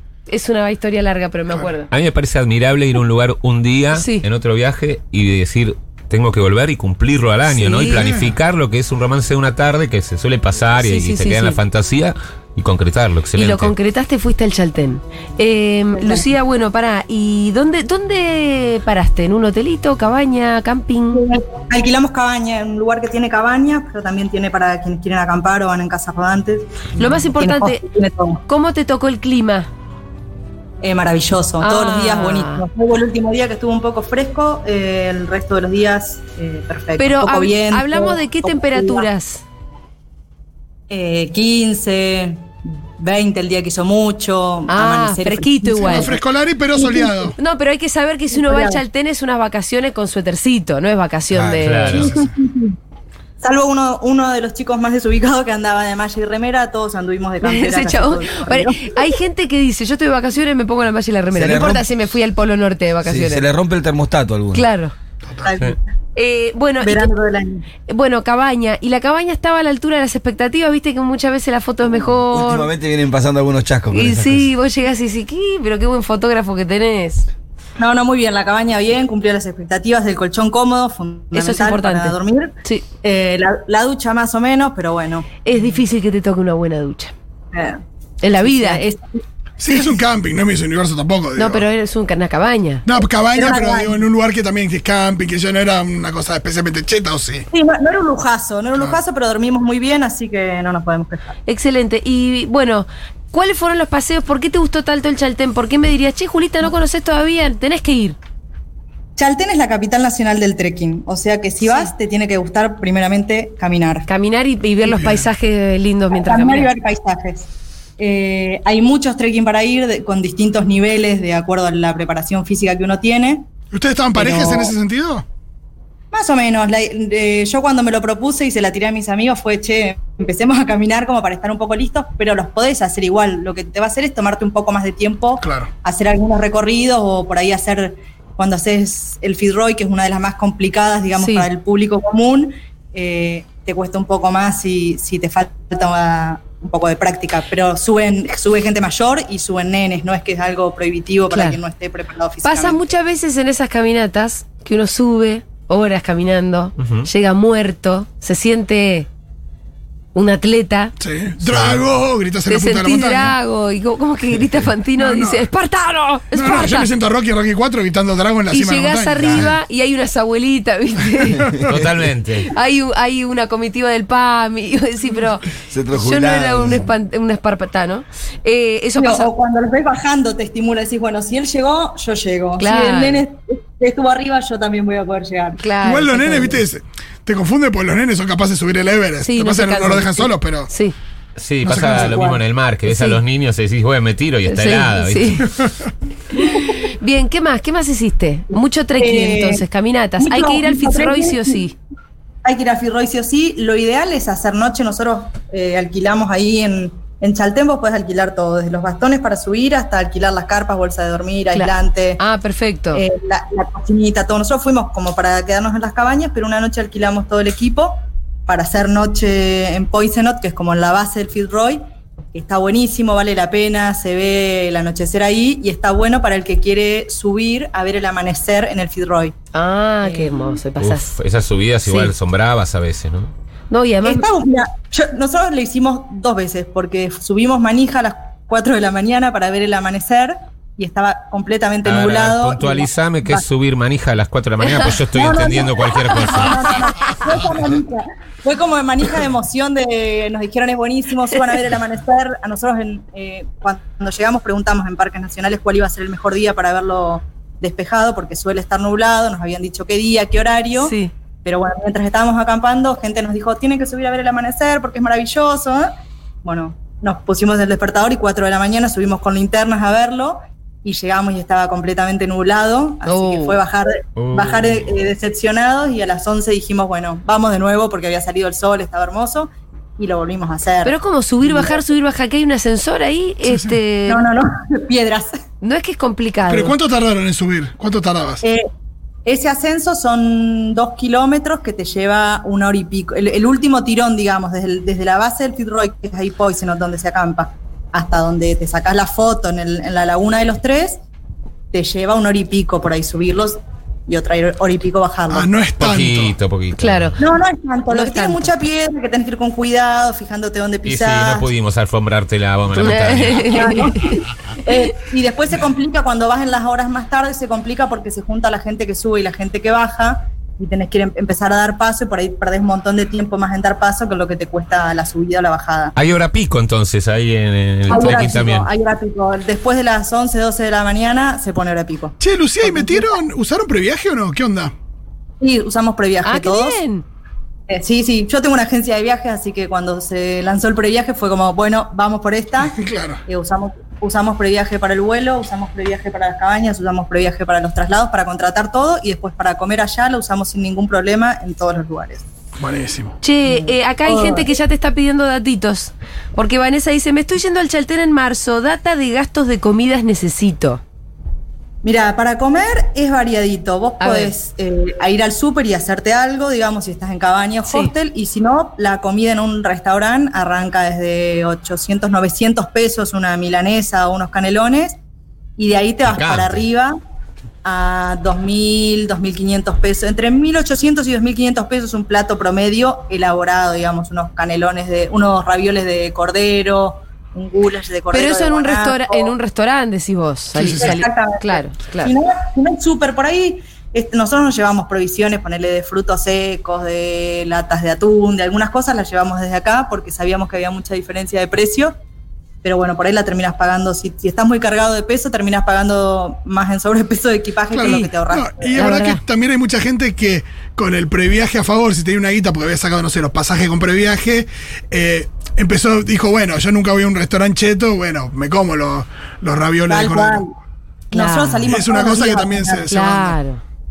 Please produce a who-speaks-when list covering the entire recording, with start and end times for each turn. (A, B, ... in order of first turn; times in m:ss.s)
0:00.3-0:01.9 A
0:01.9-0:13.7 B
0:03.9-0:04.2 A
0:07.5-0:08.0 A
0:07.9-0:08.3 C
0:10.8-0:11.6 A
0:13.4-0:21.2 A
0:16.0-0:16.2 D
0:21.1-0:28.4 D
0:27.0-0:27.8 A
0:28.5-0:29.7 A
0:30.8-0:39.1 D
0:31.6-0:32.6 A
0:37.0-0:39.4 A
0:40.9-0:46.2 D
0:44.7-0:46.1 A
0:45.8-0:47.3 C
0:46.8-0:47.1 D
0:47.4-0:52.1 A
0:48.3-0:48.8 D
0:51.3-0:51.7 E
0:51.6-0:52.2 B
0:51.9-0:52.7 D
0:53.4-0:59.1 D
0:57.4-1:03.4 A
1:01.3-1:01.8 E
1:03.0-1:04.7 E
1:04.5-1:04.9 A
1:05.4-1:05.8 D
1:06.1-1:07.1 A
1:06.8-1:07.7 D
1:07.9-1:12.7 A
1:12.3-1:14.5 E
1:13.9-1:17.3 A
1:17.8-1:25.6 D
1:21.3-1:22.8 A
1:25.4-1:27.1 A
1:27.5-1:27.8 D
1:28.2-1:28.8 A
1:28.4-1:29.2 D
1:29.6-1:31.6 C
1:31.4-1:32.8 A
1:32.8-1:37.5 C
1:33.3-1:34.0 D
1:37.5-1:41.4 D
1:41.5-1:48.2 A
1:49.2-1:54.1 D
1:51.6-1:51.9 A
1:54.1-1:56.7 A
1:54.9-1:55.2 C
1:56.1-2:03.4 D
2:03.7-2:05.2 C
2:04.1-2:04.7 D
2:06.1-2:32.8 D
2:15.4-2:15.7 C
2:21.2-2:21.5 A
2:31.3-2:31.6 A
2:32.4-2:39.1 A
2:36.8-2:37.1 B
2:40.1-2:40.9 A
2:41.0-2:43.3 C
2:42.5-2:46.9 A
2:45.0-2:45.4 C
2:46.3-2:49.6 C
2:48.5-2:51.5 A
2:51.2-2:51.8 C
2:51.6-2:52.5 B
2:52.5-2:59.3 A
2:55.7-2:56.8 E
2:59.0-3:05.6 D
3:02.6-3:03.2 A
3:05.6-3:06.6 A
3:05.8-3:10.7 C
3:09.2-3:10.9 A
3:11.4-3:15.5 B
3:11.6-3:12.4 D
3:11.7-3:12.1 C
3:12.9-3:13.2 A
3:14.4-3:15.4 A
3:16.3-3:21.7 A
3:19.0-3:19.6 D
3:20.2-3:21.6 D
3:22.4-3:32.2 D
3:31.5-3:33.0 A
3:32.9-3:41.8 D
3:42.3-3:49.3 D
3:49.5-3:51.1 A
3:50.8-3:53.3 B
3:51.8-3:52.1 A
3:53.7-3:54.2 A
3:54.0-4:03.4 D
4:01.8-4:06.7 B
4:05.1-4:25.9 D
4:20.8-4:21.1 A
4:26.4-4:41.8 D
4:33.0-4:33.6 A
4:34.2-4:34.9 B
4:40.8-4:44.2 A
4:44.1-4:45.4 D
4:45.6-4:46.7 A
4:46.5-4:48.4 C
4:48.4-4:48.7 D
4:49.2-5:01.0 D
5:01.7-5:05.5 D
5:05.3-5:06.3 C
5:05.8-5:07.2 B
5:06.8-5:07.2 A
5:07.2-5:11.5 D
5:07.9-5:08.5 A
5:10.8-5:13.7 B
5:12.8-5:14.2 A
5:13.5-5:25.9 D
5:26.0-5:28.7 B
5:27.9-5:33.2 D
5:32.2-5:34.7 C
5:35.4-5:36.8 D
5:36.2-5:37.0 A
5:37.7-5:52.2 D
5:42.7-5:43.2 C
5:52.6-5:53.2 C
5:53.2-6:00.8 A
5:53.4-5:54.5 D
6:01.8-6:15.0 D
6:04.0-6:04.3 A
6:15.6-6:16.9 D
6:16.0-6:16.6 B
6:17.6-6:29.3 D
6:28.1-6:32.1 A
6:30.6-6:30.9 C
6:30.7-6:41.9 D
6:42.6-6:48.9 D
6:47.7-7:00.4 C
6:48.8-6:49.2 A
6:59.9-7:00.5 D
7:01.1-7:01.6 A
7:01.1-7:03.0 D
7:01.7-7:03.3 C
7:02.9-7:03.6 A